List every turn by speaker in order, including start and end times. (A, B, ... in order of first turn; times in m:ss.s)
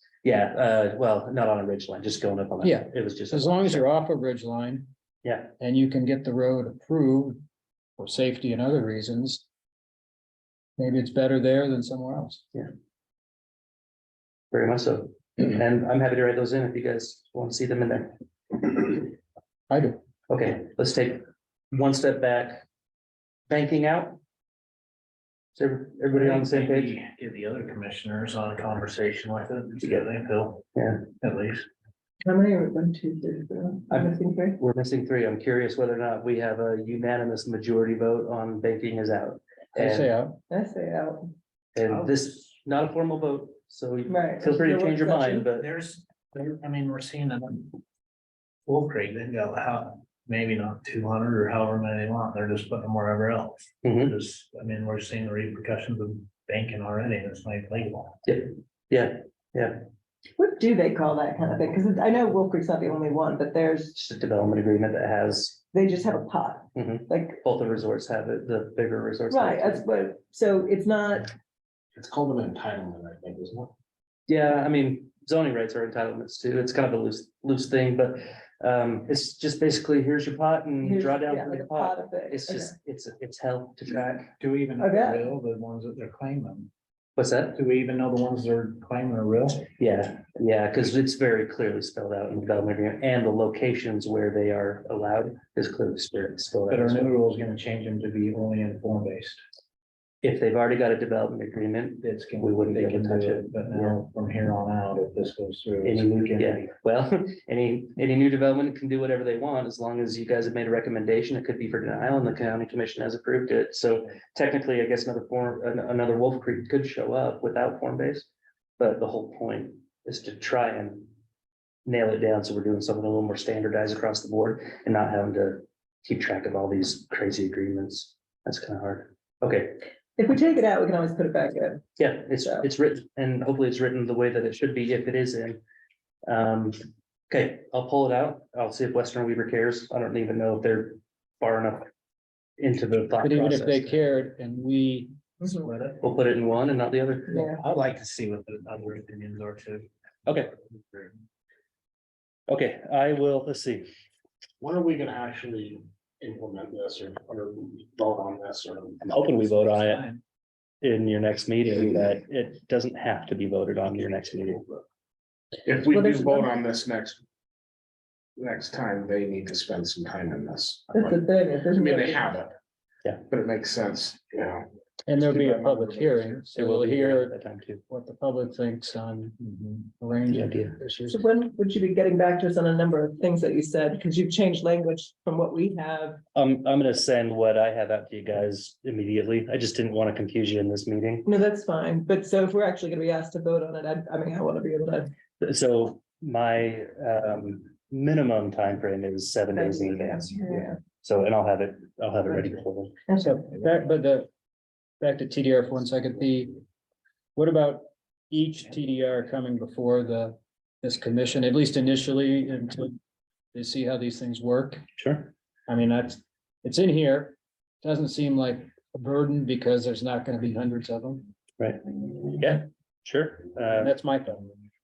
0:00.2-0:03.9 A
0:02.6-0:04.9 B
0:05.2-0:05.5 A
0:05.6-0:07.4 B
0:08.0-0:09.4 B
0:10.8-0:12.4 B
0:14.5-0:19.1 A
0:19.7-0:20.0 B
0:20.3-0:22.6 A
0:23.5-0:24.2 A
0:25.5-0:27.0 A
0:26.1-0:30.6 C
0:29.8-0:30.1 A
0:30.8-0:31.0 A
0:31.1-0:31.6 C
0:32.2-0:34.6 D
0:33.9-0:40.1 A
0:39.7-0:40.4 B
0:40.5-0:41.3 D
0:41.7-0:45.7 A
0:41.9-0:42.5 C
0:44.1-0:45.5 D
0:45.6-0:47.8 C
0:48.6-0:58.2 C
0:53.8-0:54.1 A
0:58.2-0:59.8 A
1:00.4-1:03.9 D
1:03.9-1:05.6 A
1:05.7-1:07.4 D
1:06.7-1:09.8 A
1:09.3-1:11.3 D
1:11.9-1:13.7 E
1:14.3-1:24.3 A
1:20.8-1:22.7 D
1:24.4-1:26.7 C
1:24.8-1:25.3 D
1:27.2-1:27.6 A
1:27.5-1:29.7 C
1:29.8-1:37.1 A
1:36.7-1:39.4 C
1:40.2-1:44.0 A
1:42.0-1:46.7 C
1:45.8-2:01.1 A
2:01.8-2:09.8 A
2:10.2-2:11.8 D
2:12.0-2:15.6 A
2:16.3-2:16.8 A
2:17.3-2:21.9 A
2:22.6-2:23.9 A
2:23.2-2:25.1 B
2:25.5-2:26.0 C
2:26.0-2:27.4 A
2:27.3-2:27.6 D
2:27.4-2:29.9 C
2:30.6-2:31.2 C
2:32.5-2:33.9 A
2:34.6-2:39.0 E
2:39.0-2:40.0 A
2:39.5-2:40.2 C
2:40.8-2:44.8 A
2:45.6-2:47.2 E
2:45.9-2:46.5 D
2:48.4-2:52.5 E
2:50.9-2:52.2 D
2:53.3-2:56.4 E
2:55.1-2:57.4 B
2:56.5-2:57.8 A
2:57.9-3:01.2 B
3:00.3-3:00.8 A
3:01.1-3:06.2 D
3:06.3-3:11.3 A
3:11.2-3:15.1 D
3:15.4-3:20.3 A
3:19.5-3:20.8 D
3:21.0-3:23.0 A
3:23.1-3:23.4 D
3:23.2-3:24.3 B
3:25.0-3:26.6 B
3:27.3-3:33.0 B
3:33.5-3:34.8 B
3:35.0-3:35.3 A
3:35.7-3:41.3 B
3:41.6-3:43.9 A
3:43.8-3:44.6 B